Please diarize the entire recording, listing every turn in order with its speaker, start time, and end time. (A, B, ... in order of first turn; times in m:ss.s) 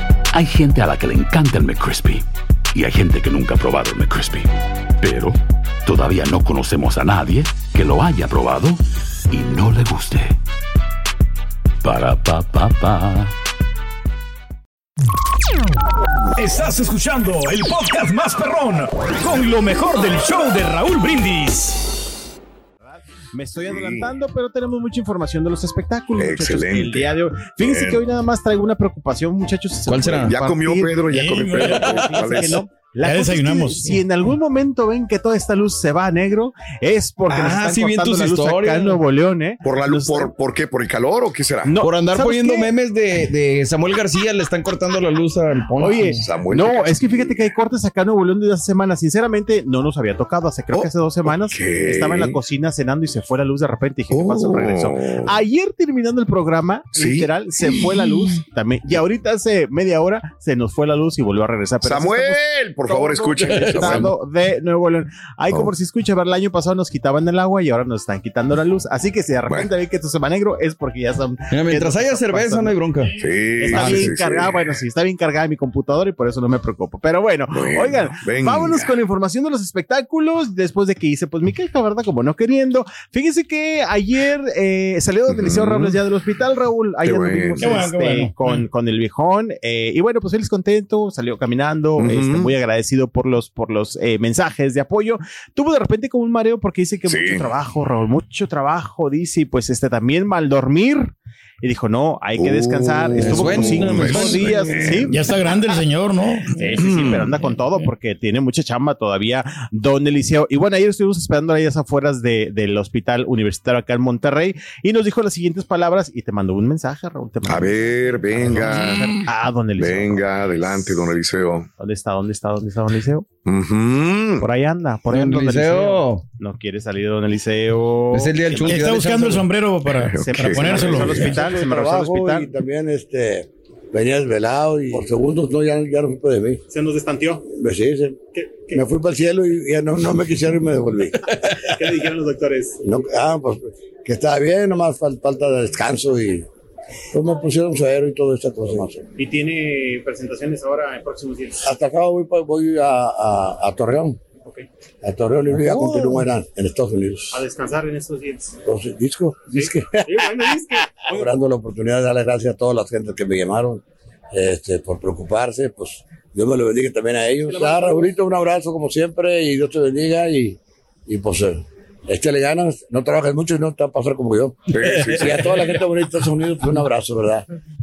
0:00.3-0:10.4 A
0:11.8-0:13.3 A
0:16.4-0:21.9 B
0:23.3-0:31.0 C
0:23.6-0:24.1 D
0:26.2-0:28.0 D
0:29.9-0:30.3 E
0:30.3-0:32.6 D
0:31.1-0:31.8 B
0:31.5-0:40.3 C
0:31.7-0:32.0 E
0:33.0-0:34.0 B
0:37.3-0:39.0 E
0:39.6-0:41.8 D
0:41.7-0:42.7 C
0:41.8-0:46.2 E
0:45.8-1:12.7 C
0:46.2-0:47.4 D
0:50.7-0:52.4 D
0:54.1-0:55.3 D
0:57.0-0:57.9 D
1:01.8-1:04.1 D
1:03.5-1:04.0 E
1:11.5-1:13.2 E
1:13.2-1:14.6 D
1:13.6-1:45.2 C
1:17.5-1:18.9 D
1:25.3-1:26.0 D
1:27.0-1:27.9 D
1:27.6-1:28.6 B
1:32.0-1:32.5 D
1:37.1-1:37.5 D
1:42.4-1:45.1 D
1:43.2-1:45.0 E
1:45.1-1:47.0 B
1:46.6-2:00.3 C
1:46.8-1:47.3 D
1:57.5-1:59.2 D
1:59.8-2:01.7 D
2:01.8-2:03.3 C
2:03.4-2:04.5 D
2:04.4-2:08.9 C
2:05.1-2:06.2 E
2:08.1-2:09.5 E
2:08.7-2:11.4 B
2:10.0-2:11.4 D
2:10.2-2:12.5 C
2:11.3-2:16.6 F
2:16.7-2:17.4 C
2:17.5-2:21.4 F
2:18.4-2:18.8 C
2:21.4-2:22.8 C
2:22.8-2:26.5 F
2:27.1-2:29.1 F
2:29.2-2:31.7 C
2:31.6-2:34.2 F
2:35.0-2:37.4 F
2:35.6-2:36.1 C
2:37.3-2:38.6 C
2:38.6-2:57.4 F
2:39.5-2:41.3 C
2:47.5-2:48.1 C
2:54.7-2:55.5 D